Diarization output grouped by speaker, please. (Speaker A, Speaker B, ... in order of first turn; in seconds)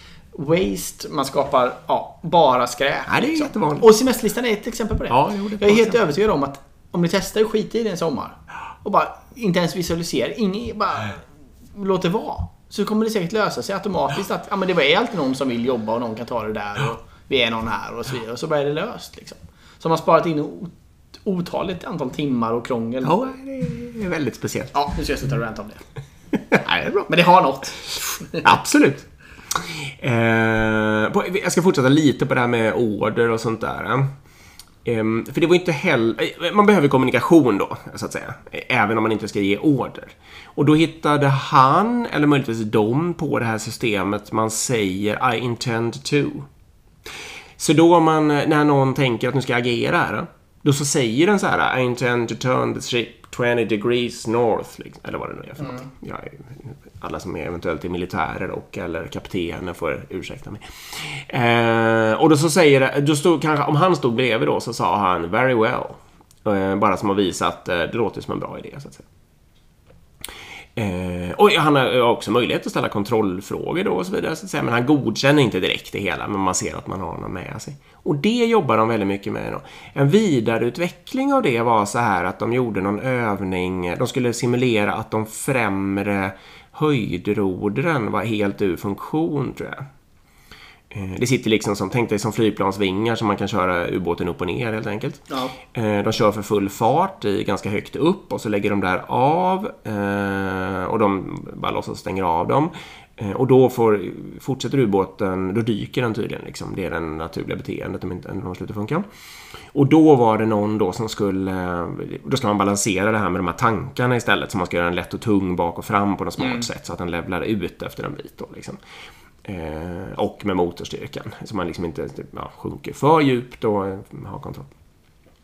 Speaker A: 0.3-20.7, 21.2-23.2, 24.7-25.9, 27.1-28.5, 95.3-95.6, 116.4-116.7
Speaker B: 3.1-3.9, 5.1-6.0, 23.0-24.7, 26.5-27.1, 28.4-34.1, 34.9-46.5, 47.6-69.1, 70.8-89.9, 90.9-109.0, 109.7-118.8, 119.5-124.7